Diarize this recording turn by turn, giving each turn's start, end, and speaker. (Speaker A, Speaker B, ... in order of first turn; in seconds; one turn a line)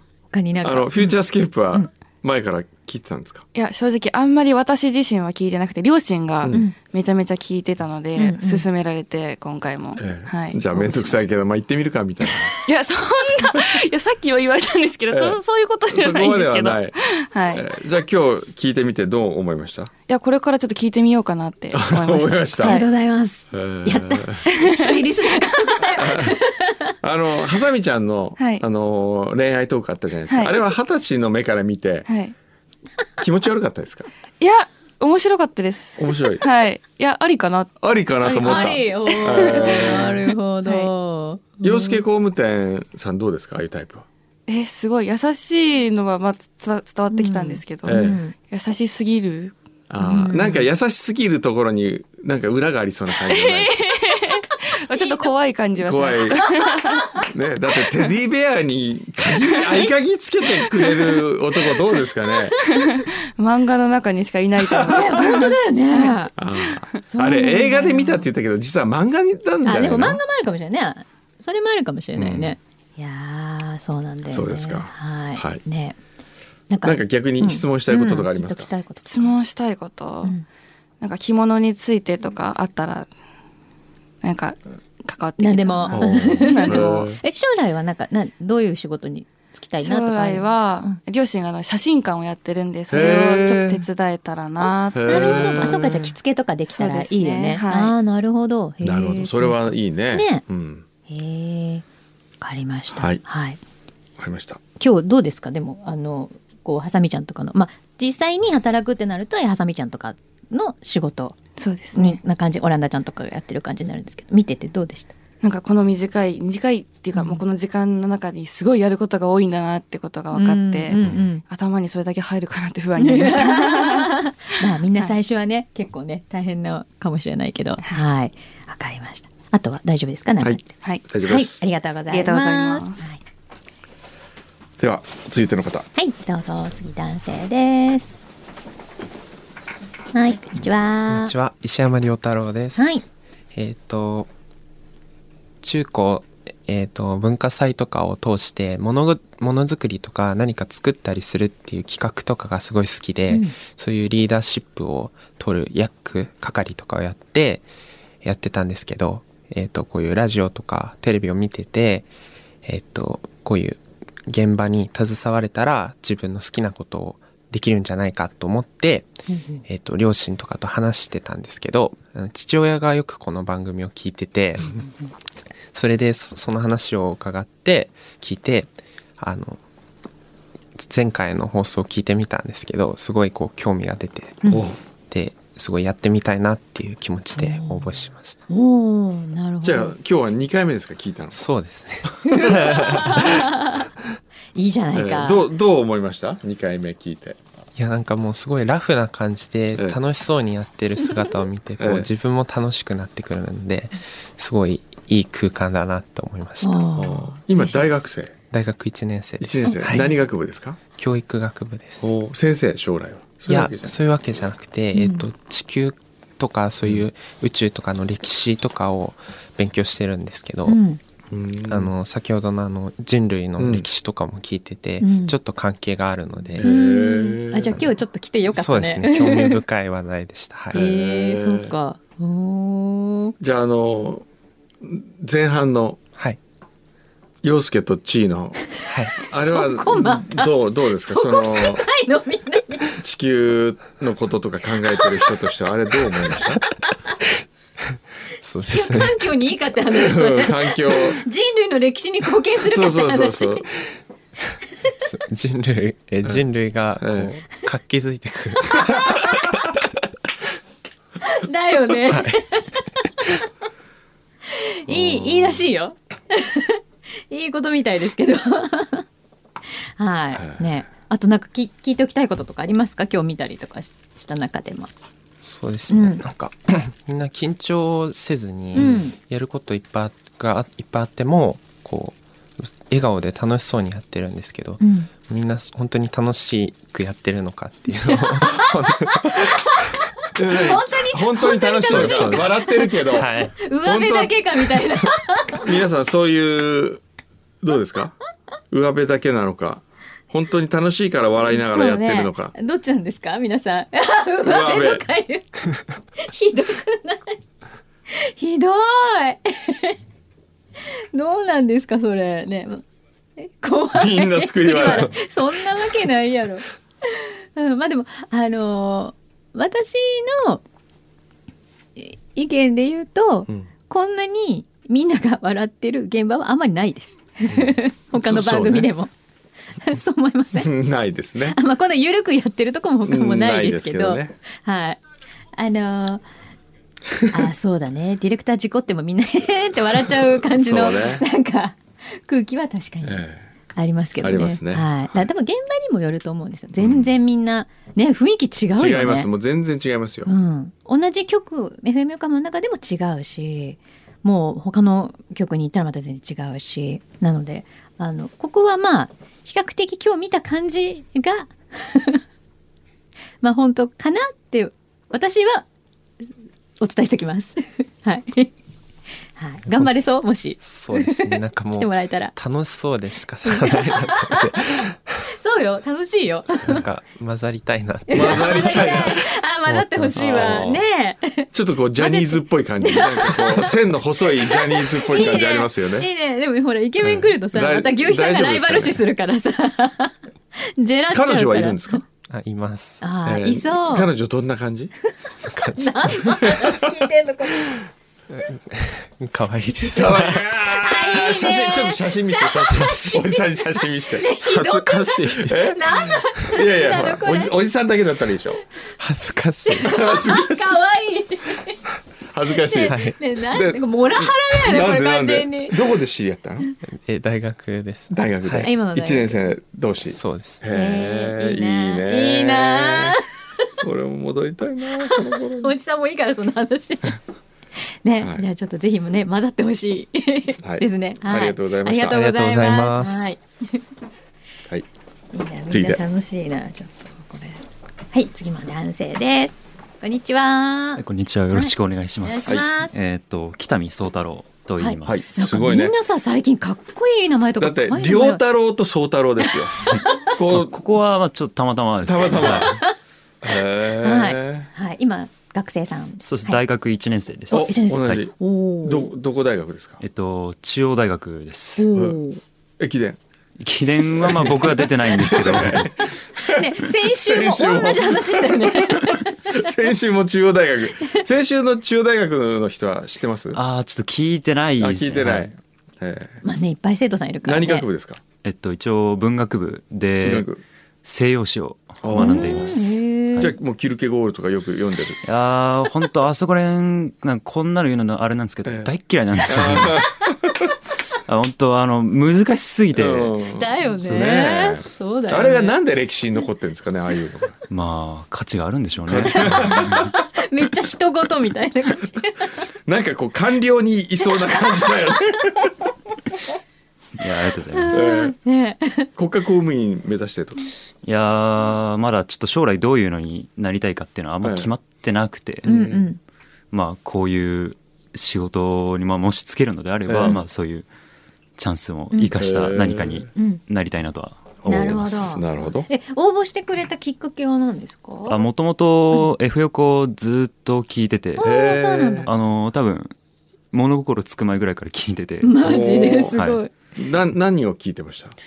Speaker A: 0.3-1.2
Speaker B: 0.6-3.4
Speaker C: 3.5-11.2
Speaker A: 8.2-8.7
Speaker B: 10.0-12.5
Speaker C: 12.6-17.7
Speaker B: 15.1-17.0
Speaker B: 17.5-19.9
Speaker C: 20.1-22.8
Speaker B: 21.7-22.8
Speaker A: 22.6-26.9
Speaker B: 23.5-24.4
Speaker C: 24.6-25.7
Speaker B: 25.9-26.4
Speaker B: 27.0-32.1
Speaker C: 28.4-28.6
Speaker C: 30.3-30.5
Speaker C: 32.1-32.3
Speaker B: 33.2-34.1
Speaker C: 34.4-40.9
Speaker B: 36.0-36.4
Speaker B: 37.8-40.1
Speaker A: 38.4-42.0
Speaker B: 41.6-44.0
Speaker C: 44.5-49.5
Speaker A: 47.1-48.3
Speaker B: 47.8-48.2
Speaker B: 49.9-53.8
Speaker A: 50.0-50.7
Speaker C: 53.2-57.1
Speaker A: 54.9-55.3
Speaker B: 55.8-56.6
Speaker B: 57.2-62.5
Speaker C: 62.6-66.2
Speaker A: 64.9-66.3
Speaker B: 66.4-70.2
Speaker A: 67.1-68.3
Speaker A: 69.6-76.0
Speaker B: 72.2-72.5
Speaker B: 74.3-75.6
Speaker A: 76.7-79.4
Speaker B: 76.8-78.7
Speaker C: 79.1-80.3
Speaker C: 81.0-83.1
Speaker C: 84.2-87.2
Speaker A: 85.4-91.0
Speaker B: 85.9-87.2
Speaker C: 89.8-95.8
Speaker B: 92.9-93.8
Speaker B: 94.9-96.1
Speaker A: 95.0-100.4
Speaker C: 96.7-97.9
Speaker B: 98.8-100.8
Speaker A: 101.1-101.8
Speaker A: 102.4-103.6
Speaker B: 102.9-103.2
Speaker B: 104.2-104.6
Speaker A: 104.8-111.4
Speaker C: 111.6-112.2
Speaker A: 111.9-115.1
Speaker C: 115.4-124.1
Speaker A: 117.1-117.4
Speaker A: 120.3-121.4
Speaker B: 120.9-121.2
Speaker A: 123.0-130.7
Speaker B: 130.4-131.6
Speaker A: 131.2-133.2
Speaker C: 132.1-133.1
Speaker B: 134.8-135.9
Speaker A: 135.9-138.2
Speaker A: 140.1-141.3
Speaker D: 141.1-144.3
Speaker A: 142.8-143.0
Speaker D: 145.6-157.6
Speaker A: 153.3-153.6
Speaker D: 158.2-162.1
Speaker D: 162.6-169.1
Speaker A: 169.3-169.6
Speaker D: 169.7-174.8
Speaker D: 175.7-179.6
Speaker D: 180.8-188.4
Speaker B: 184.5-184.8
Speaker A: 187.3-187.9
Speaker A: 188.5-189.9
Speaker B: 189.6-191.4
Speaker D: 191.3-193.1
Speaker B: 192.2-193.3
Speaker A: 192.4-193.8
Speaker A: 194.5-195.4
Speaker B: 194.9-197.4
Speaker D: 197.8-206.9
Speaker B: 201.8-202.1
Speaker A: 206.6-207.8
Speaker B: 206.9-208.3
Speaker D: 208.5-210.1
Speaker B: 209.4-210.8
Speaker D: 210.9-212.1
Speaker B: 212.0-213.9
Speaker D: 213.4-220.8
Speaker A: 214.9-215.2
Speaker A: 220.7-221.0
Speaker B: 221.3-221.9
Speaker D: 221.7-226.7
Speaker B: 223.6-223.9
Speaker A: 225.0-225.4
Speaker B: 226.6-227.9
Speaker A: 226.6-229.6
Speaker D: 228.5-230.9
Speaker A: 230.7-233.3
Speaker B: 230.7-231.7
Speaker B: 233.4-234.2
Speaker B: 234.8-236.0
Speaker B: 237.4-238.6
Speaker D: 238.9-239.2
Speaker B: 239.2-241.8
Speaker A: 239.2-240.5
Speaker A: 241.0-242.9
Speaker B: 242.9-246.6
Speaker D: 248.4-249.3
Speaker A: 248.6-253.6
Speaker B: 249.9-251.2
Speaker B: 252.6-253.7
Speaker D: 255.0-259.2
Speaker B: 257.0-257.4
Speaker A: 258.7-259.5
Speaker A: 261.2-263.5
Speaker D: 262.1-262.3
Speaker A: 264.5-269.0
Speaker B: 264.9-265.6
Speaker A: 270.0-274.9
Speaker B: 270.3-270.6
Speaker D: 275.4-289.5
Speaker A: 275.9-276.2
Speaker A: 278.7-279.2
Speaker A: 284.8-285.1
Speaker A: 288.0-295.7
Speaker B: 290.3-293.3
Speaker D: 291.9-293.5
Speaker B: 293.8-297.0
Speaker B: 297.6-298.1
Speaker B: 298.7-302.5
Speaker A: 301.5-307.4
Speaker B: 304.4-305.0
Speaker A: 308.1-309.9
Speaker A: 311.1-312.8
Speaker A: 313.4-320.6
Speaker B: 313.9-315.1
Speaker A: 322.0-329.1
Speaker B: 327.5-328.9
Speaker A: 329.8-330.7
Speaker B: 330.5-331.6
Speaker A: 331.5-335.0
Speaker B: 333.0-334.4
Speaker A: 335.6-336.2
Speaker A: 337.3-343.2
Speaker B: 340.5-341.2
Speaker B: 343.0-343.5
Speaker A: 343.7-349.3
Speaker B: 344.2-345.2
Speaker B: 346.8-347.1
Speaker B: 348.8-350.3
Speaker A: 350.2-362.2
Speaker A: 363.4-365.6
Speaker A: 366.8-368.5
Speaker A: 369.4-372.3
Speaker D: 370.6-374.9
Speaker A: 373.4-376.8
Speaker D: 376.6-380.7
Speaker A: 378.1-383.7
Speaker B: 378.1-379.2
Speaker B: 380.1-380.8
Speaker B: 381.5-386.1
Speaker A: 384.4-392.0
Speaker B: 387.0-389.0
Speaker B: 391.1-392.0
Speaker D: 392.3-393.0
Speaker A: 393.0-394.1
Speaker B: 393.2-394.9
Speaker D: 395.5-396.4
Speaker A: 395.7-397.7
Speaker B: 396.4-396.7
Speaker D: 398.3-400.4
Speaker B: 399.9-408.6
Speaker A: 400.6-407.6
Speaker D: 409.0-409.9
Speaker A: 409.6-411.8
Speaker B: 409.9-410.8
Speaker B: 412.3-416.6
Speaker A: 412.7-415.8
Speaker D: 412.9-413.2
Speaker D: 416.8-418.7
Speaker B: 418.1-423.1
Speaker A: 418.6-419.4
Speaker D: 420.1-420.6
Speaker A: 420.7-423.2
Speaker B: 423.8-425.8
Speaker A: 425.0-427.2
Speaker A: 427.8-433.8
Speaker B: 428.2-428.4
Speaker B: 430.6-432.2
Speaker D: 432.0-433.3
Speaker A: 435.3-441.7
Speaker B: 435.7-436.0
Speaker E: 441.0-445.6
Speaker A: 442.2-442.9
Speaker B: 442.5-442.7
Speaker A: 444.8-448.4
Speaker B: 445.1-445.9
Speaker B: 447.6-450.8
Speaker E: 450.4-452.8
Speaker B: 452.0-452.8
Speaker A: 452.4-452.9
Speaker B: 453.4-454.7
Speaker A: 454.0-456.6
Speaker E: 456.2-458.2
Speaker A: 457.5-459.1
Speaker B: 457.5-460.0
Speaker E: 460.0-461.9
Speaker A: 461.8-462.4
Speaker B: 462.8-463.2
Speaker E: 463.6-465.9
Speaker B: 464.0-473.6
Speaker A: 465.4-469.7
Speaker E: 473.5-475.5
Speaker B: 474.8-476.4
Speaker A: 476.4-477.9
Speaker B: 477.4-478.2
Speaker E: 478.4-480.5
Speaker B: 480.2-480.6
Speaker E: 481.0-483.6
Speaker B: 482.0-482.8
Speaker A: 482.1-483.5
Speaker B: 483.4-485.2
Speaker E: 485.2-490.1
Speaker B: 488.6-488.9
Speaker B: 489.5-490.6
Speaker E: 491.3-494.4
Speaker B: 492.9-497.6
Speaker A: 493.5-495.8
Speaker E: 497.7-500.1
Speaker B: 499.1-500.1
Speaker A: 499.3-502.6
Speaker B: 502.9-505.7
Speaker E: 507.2-508.2
Speaker A: 507.7-509.1
Speaker B: 507.9-508.3
Speaker B: 509.1-510.6
Speaker E: 511.0-515.7
Speaker B: 514.4-514.7
Speaker B: 515.6-516.0
Speaker A: 515.6-516.2
Speaker E: 516.7-520.9
Speaker B: 520.1-520.4
Speaker E: 521.6-525.4
Speaker B: 522.4-523.3
Speaker A: 523.4-523.6
Speaker B: 524.6-525.9
Speaker A: 524.6-528.4
Speaker E: 528.3-531.5
Speaker A: 531.4-532.3
Speaker B: 531.4-532.3
Speaker E: 532.2-533.1
Speaker E: 533.7-535.6
Speaker A: 535.4-536.7
Speaker B: 535.6-536.3
Speaker E: 536.3-536.6
Speaker B: 536.9-538.4